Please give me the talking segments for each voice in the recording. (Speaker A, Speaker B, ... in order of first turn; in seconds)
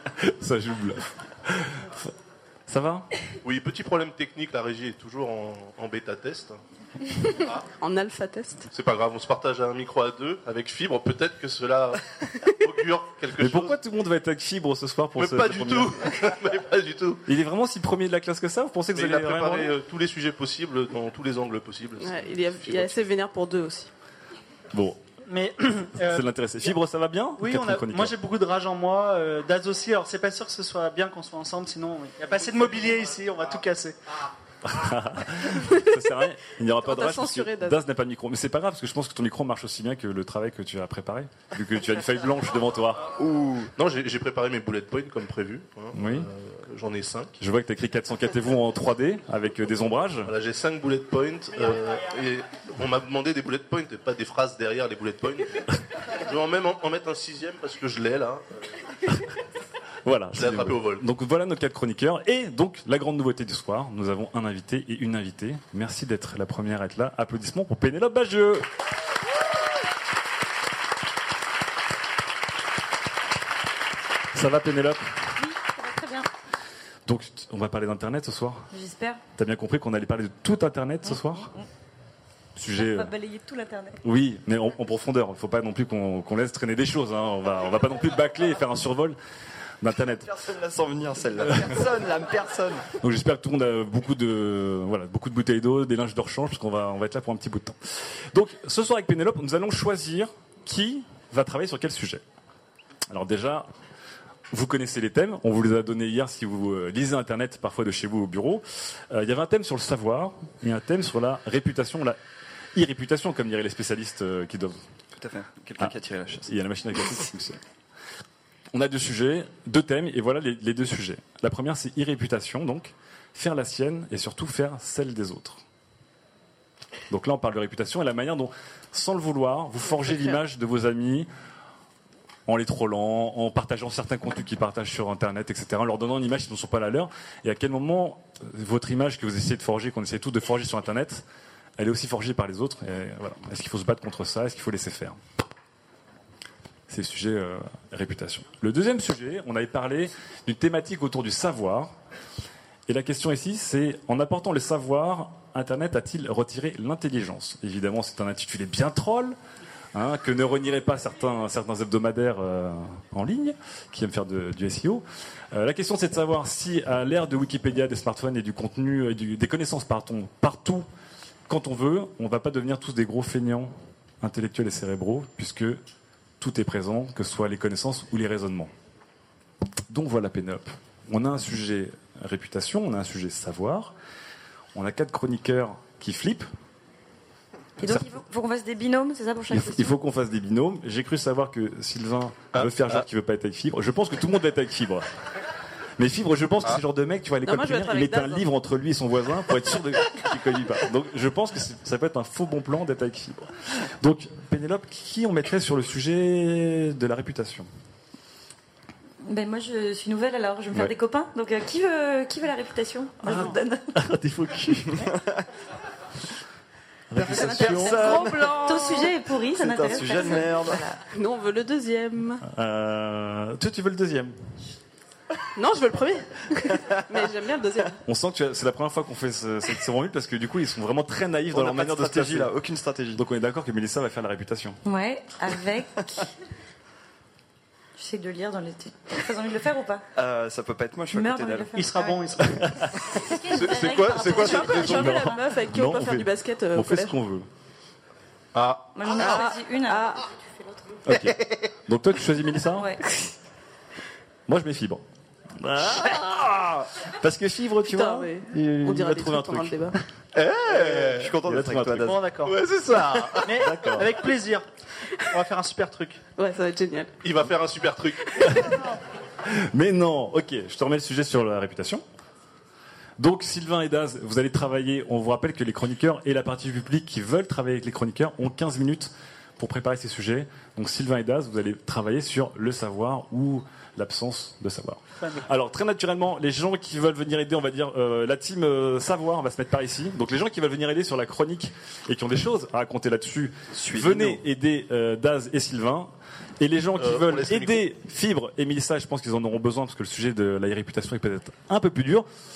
Speaker A: 0.2-2.1, 2.7-3.1, 13.4-16.0, 17.3-19.7, 24.7-25.0, 26.0-28.2, 34.6-43.1, 45.9-46.3, 47.4-50.3, 60.0-68.7, 74.3-75.1, 77.1-78.7, 79.4-81.5, 82.6-83.1, 84.0-89.2, 89.8-90.3, 91.4-91.8, 93.0-102.2, 103.1-103.7, 104.5-112.2, 112.8-114.8, 115.8-117.6, 118.7-125.6, 127.1-131.3, 132.5-141.2, 141.8-145.2, 146.9-151.9, 152.9-159.3, 159.9-170.9, 171.5-175.8, 176.4-178.7, 179.9-183.9, 184.8-186.5, 189.5-195.1, 196.0-207.7, 213.3-215.1, 217.1-218.1, 222.5-224.3, 228.1-232.6, 233.2-234.8, 242.5-242.9, 244.8-247.5, 251.1-252.9, 254.5-255.0, 255.6-260.0, 261.3-262.4, 262.9-264.1, 269.5-272.0, 273.2-302.3
Speaker B: 3.5-6.6, 8.7-12.0, 12.6-13.8, 15.2-17.2, 18.9-23.0, 43.8-47.3, 50.2-55.6, 56.2-58.7, 60.3-61.0, 192.5-193.0, 248.5-248.8, 262.5-263.6, 267.2-268.2, 297.0-297.8
Speaker C: 7.8-8.7, 22.0-23.9, 35.6-36.1, 36.8-37.8, 129.8-130.4, 197.4-198.5, 217.2-219.1, 221.1-222.4, 225.6-228.0, 243.7-247.2, 249.1-250.3, 257.8-260.0, 266.4-267.1
Speaker D: 25.3-26.3, 27.4-34.0, 241.7-242.7, 260.8-261.1, 262.0-264.6, 265.3-266.2
Speaker E: 43.2-43.7, 90.3-92.9, 115.2-116.6, 215.0-215.4, 217.8-218.5, 219.5-220.8, 231.5-233.2, 240.2-241.7, 244.2-244.4, 260.6-262.2, 293.7-294.4
Speaker F: 75.4-76.3, 78.7-79.2, 81.0-81.7, 82.7-84.0, 187.8-190.0, 209.3-213.9, 218.5-221.0, 234.8-236.3, 238.0-240.0, 241.1-245.5, 248.9-250.7, 252.8-253.0